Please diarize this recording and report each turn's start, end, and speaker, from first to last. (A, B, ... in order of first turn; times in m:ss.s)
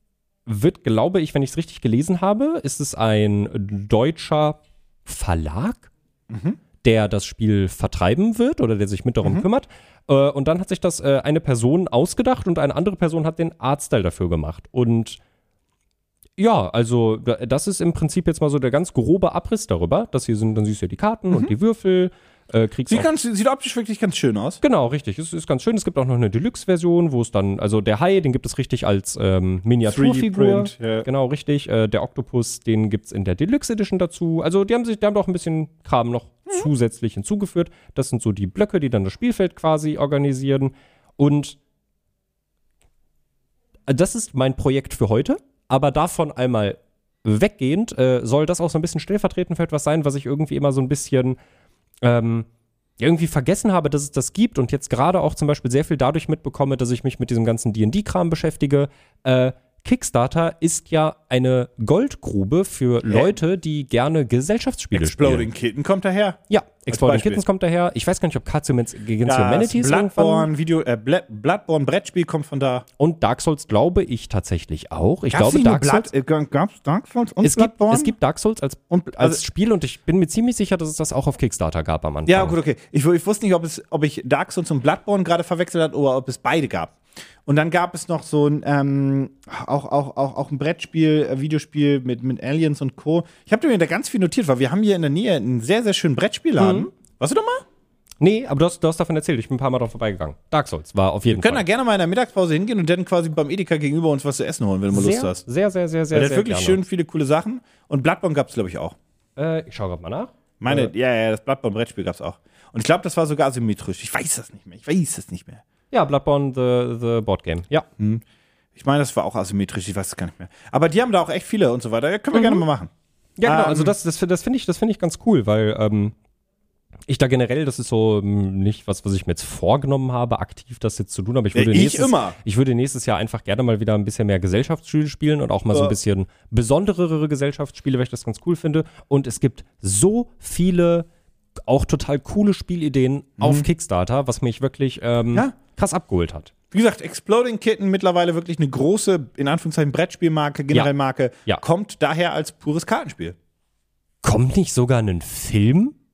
0:00.5-0:05.9 A
0:06.3-0:06.6 B
0:06.8-0:15.2 A
0:16.4-0:23.1 A
0:22.9-0:24.6 B
0:24.6-0:41.6 A
0:29.9-0:31.1 B
0:43.9-0:51.4 A
0:52.0-0:52.5 A
0:53.0-1:05.5 A
1:03.0-1:03.4 B
1:04.9-1:07.4 B
1:06.5-1:10.5 A
1:09.2-1:12.8 B
1:13.0-1:16.1 A
1:15.3-1:18.1 B
1:17.4-1:22.6 A
1:18.9-1:19.4 B
1:22.3-1:37.6 B
1:36.6-1:36.9 A
1:38.2-1:41.6 A
1:41.3-1:45.4 B
1:44.9-1:46.8 A
1:46.1-1:49.0 B
1:49.4-1:50.9 A
1:50.6-1:55.6 B
1:55.9-1:57.9 A
1:58.8-2:02.9 B
2:02.3-2:02.6 A
2:03.4-2:06.1 A
2:03.4-2:03.9 B
2:07.1-2:21.1 A
2:11.5-2:12.4 B
2:21.7-2:26.5 A
2:23.4-2:23.7 B
2:26.7-2:33.4 B
2:34.2-2:36.0 A